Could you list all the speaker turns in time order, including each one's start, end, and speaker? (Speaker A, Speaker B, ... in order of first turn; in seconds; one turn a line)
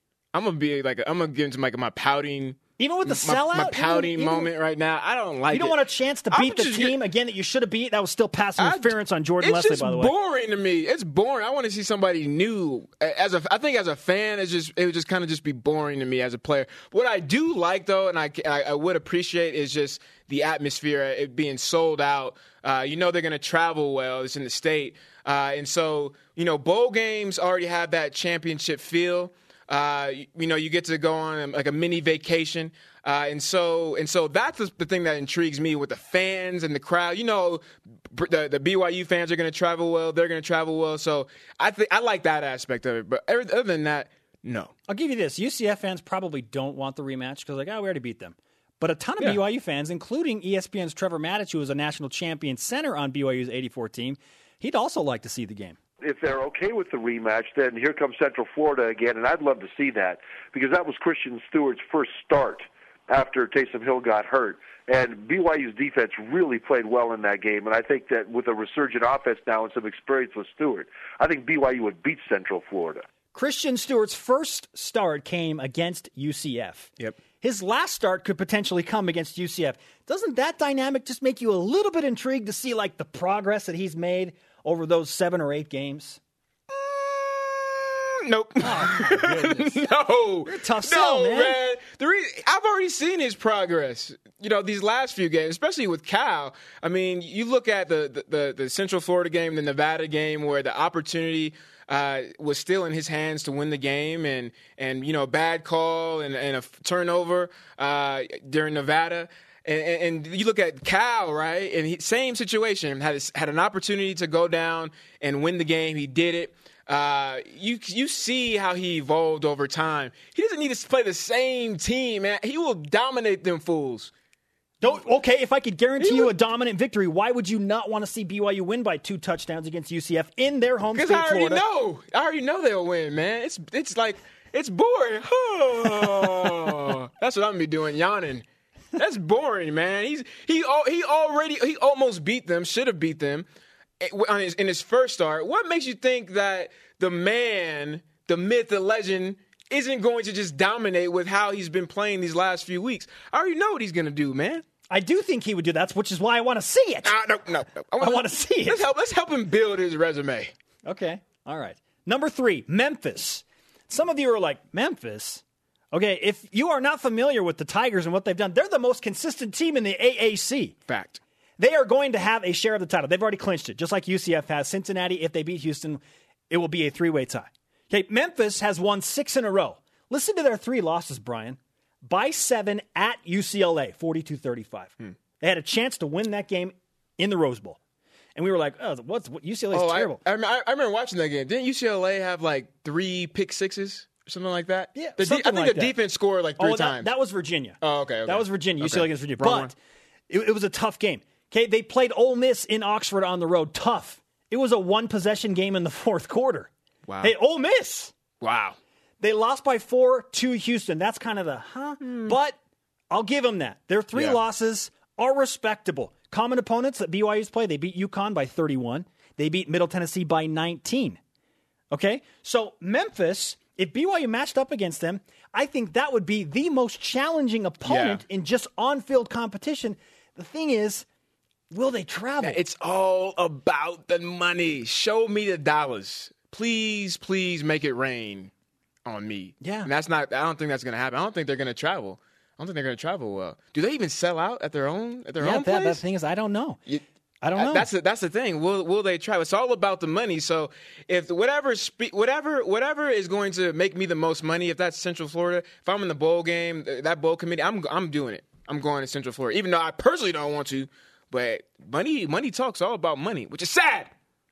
Speaker A: 0.3-7.0
Speaker B: 2.8-4.5
Speaker B: 5.5-10.1
Speaker A: 8.6-44.7
Speaker B: 44.9-55.8
Speaker C: 56.0-73.0
Speaker B: 73.3-86.2
Speaker A: 86.7-124.1
Speaker B: 88.6-89.8
Speaker B: 90.4-91.6
Speaker B: 124.8-131.6
Speaker A: 126.0-126.3
Speaker A: 130.9-143.4
Speaker A: 144.0-154.6
Speaker B: 154.9-157.2
Speaker A: 157.0-160.5
Speaker B: 158.0-158.9
Speaker B: 160.8-170.8
Speaker A: 170.9-171.2
Speaker B: 171.6-187.8
Speaker B: 188.3-190.2
Speaker A: 189.7-197.1
Speaker B: 194.9-196.0
Speaker B: 196.6-199.7
Speaker A: 197.8-199.7
Speaker B: 200.3-206.7
Speaker A: 207.1-207.3
Speaker B: 207.2-208.1
Speaker A: 208.4-208.8
Speaker B: 209.2-212.6
Speaker A: 212.0-212.3
Speaker B: 213.1-221.2
Speaker A: 214.1-214.4
Speaker B: 221.9-231.1
Speaker A: 227.8-228.2
Speaker B: 231.7-232.6
Speaker A: 232.4-238.5
Speaker A: 239.0-246.0
Speaker B: 239.6-239.9
Speaker B: 245.4-246.8
Speaker A: 246.8-264.1
Speaker B: 247.4-247.9